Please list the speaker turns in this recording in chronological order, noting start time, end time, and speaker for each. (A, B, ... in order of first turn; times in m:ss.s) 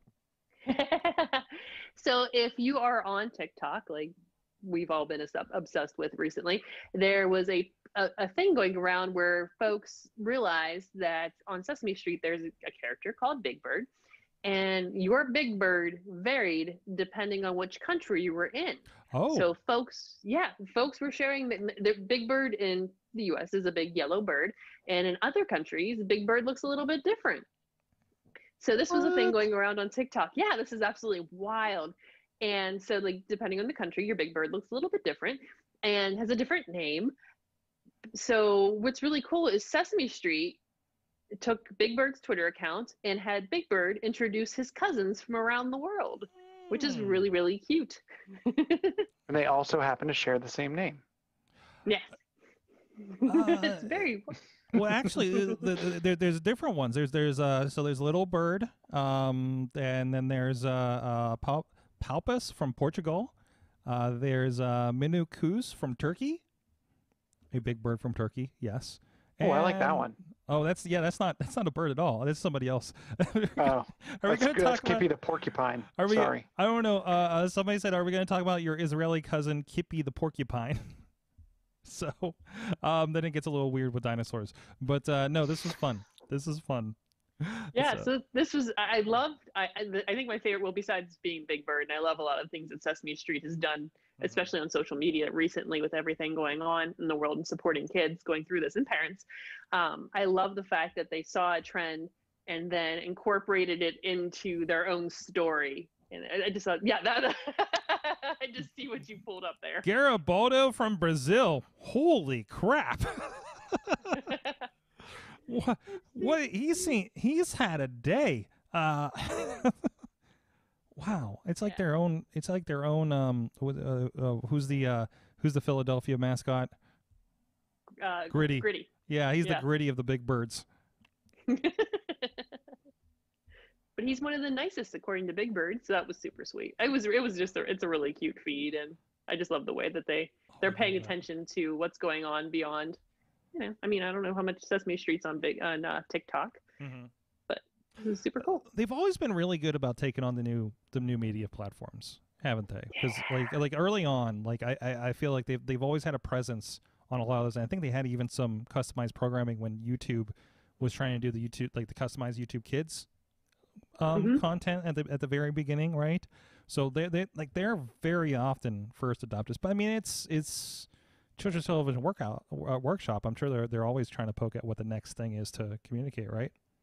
0:00.7-0:13.9 A
0:14.4-0:27.4 A
0:19.1-0:19.5 B
0:28.6-0:37.1 A
0:38.1-0:40.6 A
0:41.4-0:49.0 A
0:46.7-0:47.3 B
0:49.3-0:51.0 C
0:51.8-0:52.2 A
0:53.0-0:54.4 A
0:53.2-0:54.1 B
0:54.7-1:06.4 B
1:07.5-1:15.1 B
1:09.4-1:10.2 C
1:13.6-1:16.4 C
1:16.0-1:21.0 B
1:21.8-1:28.1 B
1:27.8-1:49.9 A
1:34.2-1:34.5 B
1:49.8-1:54.3 B
1:54.2-1:54.5 A
1:55.4-1:59.9 B
2:01.0-2:06.7 B
2:08.0-2:08.9 A
2:08.3-2:10.6 B
2:11.5-2:12.6 A
2:14.0-2:23.0 A
2:20.6-2:21.2 B
2:23.5-2:26.6 A
2:26.8-2:27.1 B
2:27.5-2:28.6 A
2:28.4-2:43.1 B
2:33.0-2:33.4 A
2:44.0-2:56.5 B
2:44.1-2:44.4 A